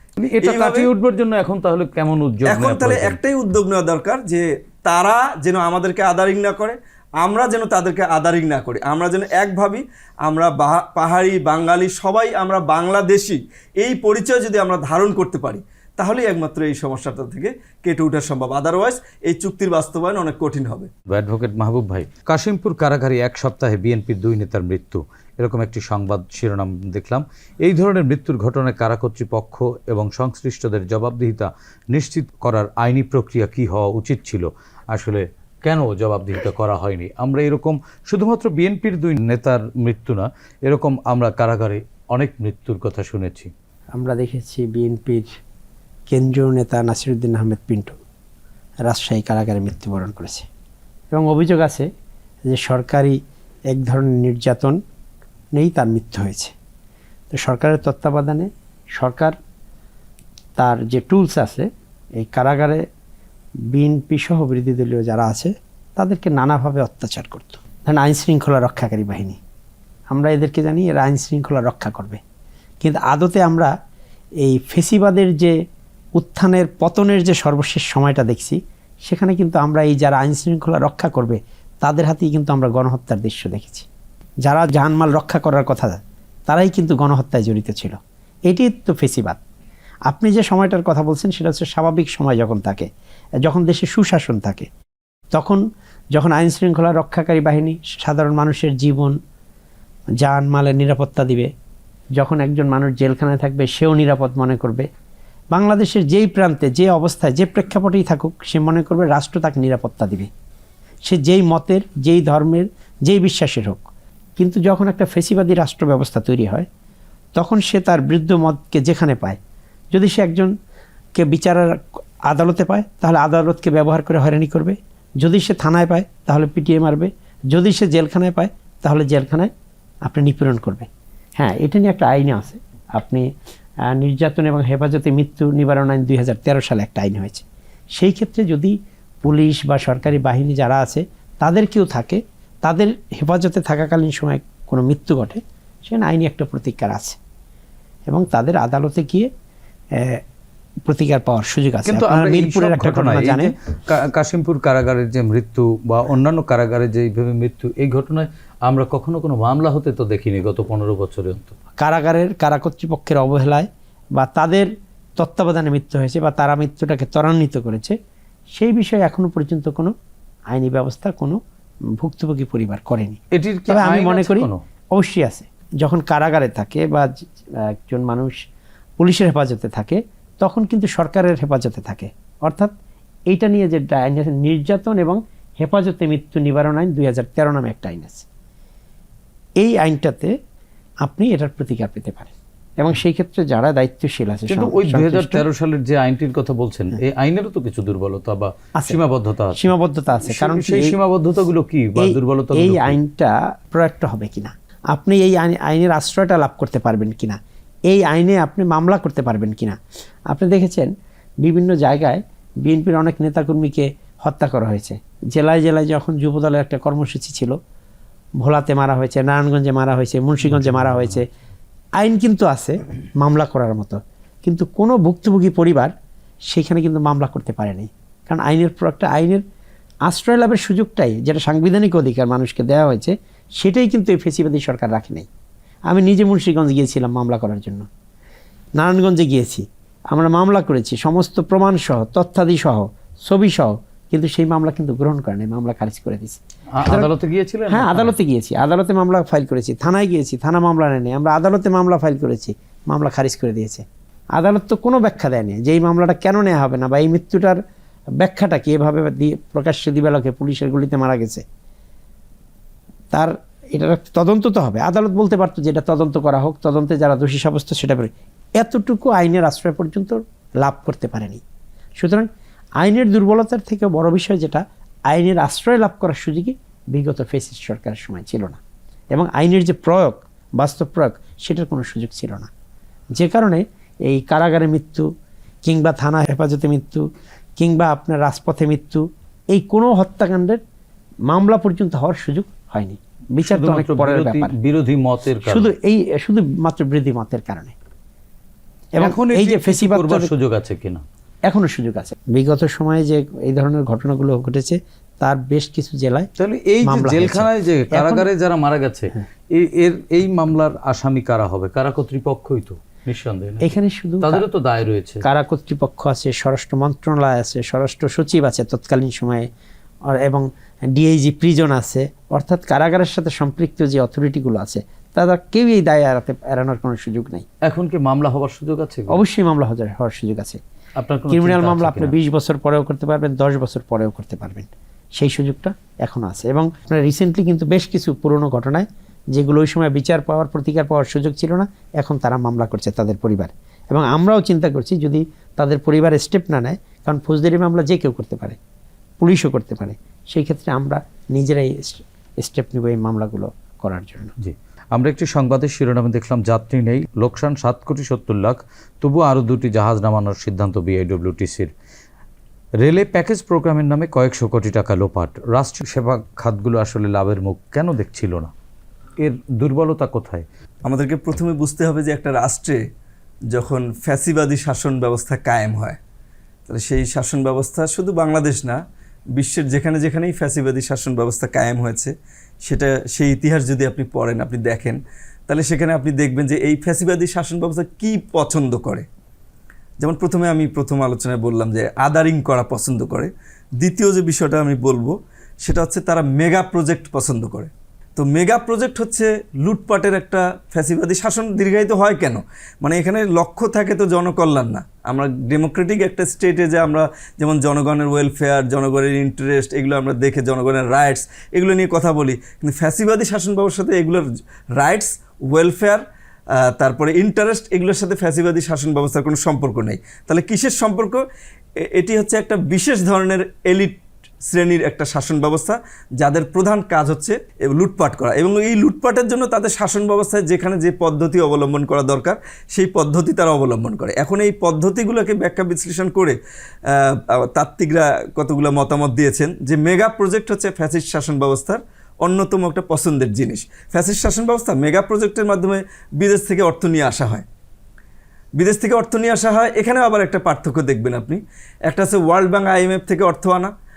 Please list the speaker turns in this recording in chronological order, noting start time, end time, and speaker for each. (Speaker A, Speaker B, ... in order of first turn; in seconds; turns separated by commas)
Speaker A: 0.2-3.2, Speaker B: 0.4-0.9, Speaker B: 2.5-20.9, Speaker A: 21.1-43.5, Speaker C: 44.0-45.3, Speaker C: 46.1-48.0, Speaker C: 48.9-50.5, Speaker C: 51.1-51.9, Speaker C: 52.5-53.2, Speaker C: 53.7-54.8, Speaker C: 55.6-56.5, Speaker C: 57.3-59.4, Speaker C: 60.6-62.9, Speaker C: 63.7-69.4, Speaker C: 70.1-72.2, Speaker C: 72.8-73.7, Speaker C: 74.4-75.6, Speaker C: 76.2-83.9, Speaker C: 84.5-89.4, Speaker C: 90.1-92.9, Speaker C: 93.4-94.7, Speaker C: 95.3-95.6, Speaker C: 96.1-99.2, Speaker C: 100.2-101.5, Speaker C: 102.2-104.9, Speaker C: 105.5-110.3, Speaker C: 111.1-113.8, Speaker C: 114.4-116.7, Speaker C: 117.4-119.4, Speaker C: 119.9-120.5, Speaker C: 121.2-129.5, Speaker C: 130.1-133.3, Speaker C: 133.9-147.2, Speaker C: 148.1-149.3, Speaker C: 149.9-150.2, Speaker C: 150.9-153.5, Speaker A: 151.8-161.6, Speaker C: 161.8-168.0, Speaker C: 168.6-169.9, Speaker C: 170.5-171.4, Speaker C: 172.0-177.1, Speaker A: 173.3-174.6, Speaker C: 177.6-178.4, Speaker C: 179.0-182.7, Speaker C: 183.3-188.3, Speaker C: 189.6-190.3, Speaker C: 191.0-195.4, Speaker A: 194.5-199.7, Speaker C: 199.5-201.0, Speaker A: 200.2-203.0, Speaker C: 202.0-217.6, Speaker C: 218.4-221.3, Speaker A: 220.5-221.2, Speaker C: 222.0-225.9, Speaker C: 226.5-229.4, Speaker C: 230.1-235.3, Speaker C: 235.9-237.9, Speaker C: 238.8-247.1, Speaker A: 246.7-248.2, Speaker C: 247.7-257.6, Speaker C: 258.2-261.4, Speaker C: 263.1-271.4, Speaker C: 272.0-278.6, Speaker C: 279.1-282.5, Speaker C: 283.1-285.1, Speaker C: 285.6-290.6, Speaker C: 291.3-294.5, Speaker A: 293.4-295.7, Speaker C: 295.4-297.8, Speaker C: 299.0-300.3, Speaker A: 299.0-301.0, Speaker C: 301.5-306.3, Speaker A: 306.4-315.2, Speaker C: 306.8-308.3, Speaker C: 313.6-314.4, Speaker C: 315.2-319.5, Speaker C: 320.1-327.5, Speaker A: 327.6-329.2, Speaker C: 329.1-330.6, Speaker A: 331.0-332.2, Speaker C: 331.3-348.6, Speaker C: 349.2-354.3, Speaker A: 354.4-361.7, Speaker A: 362.8-368.5, Speaker A: 369.2-370.5, Speaker B: 370.9-372.8, Speaker B: 373.5-376.0, Speaker B: 376.7-378.8, Speaker B: 379.4-382.1, Speaker B: 382.7-389.1, Speaker B: 390.0-414.2, Speaker B: 414.8-416.0, Speaker B: 416.6-421.2, Speaker B: 421.9-436.4, Speaker B: 436.9-447.4, Speaker B: 448.6-453.7